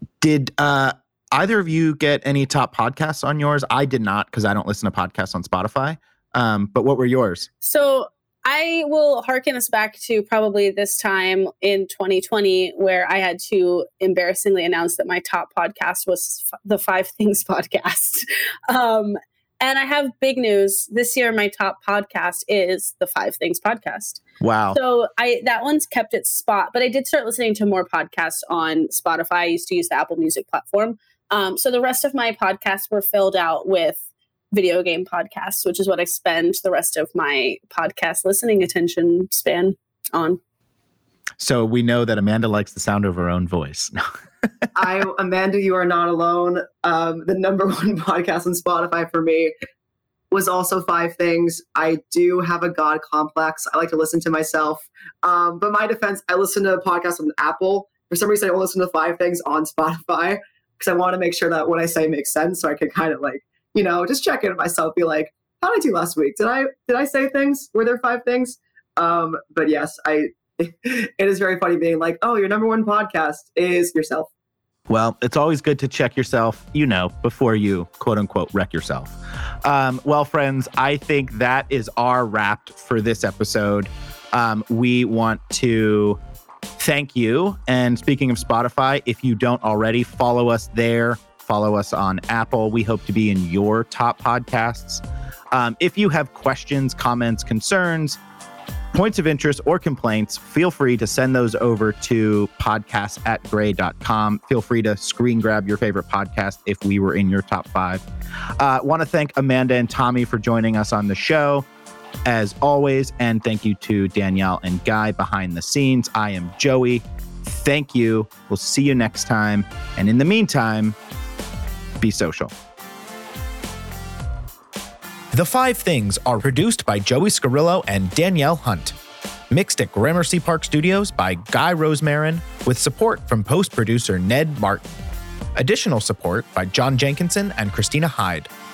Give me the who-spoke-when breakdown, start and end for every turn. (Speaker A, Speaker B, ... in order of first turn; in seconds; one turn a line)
Speaker A: 0.2-7.5
Speaker B: 7.6-24.2
Speaker A: 24.4-24.8
Speaker B: 24.7-34.0
Speaker B: 34.5-40.4
Speaker A: 41.4-44.0
Speaker C: 44.8-49.5
Speaker C: 50.3-74.3
Speaker A: 74.9-86.2
Speaker A: 86.8-98.2
Speaker A: 98.9-108.0
Speaker A: 108.6-111.7
Speaker A: 112.3-121.0
Speaker A: 122.0-122.5
Speaker A: 125.3-129.0
Speaker A: 129.5-134.9
Speaker A: 135.6-138.5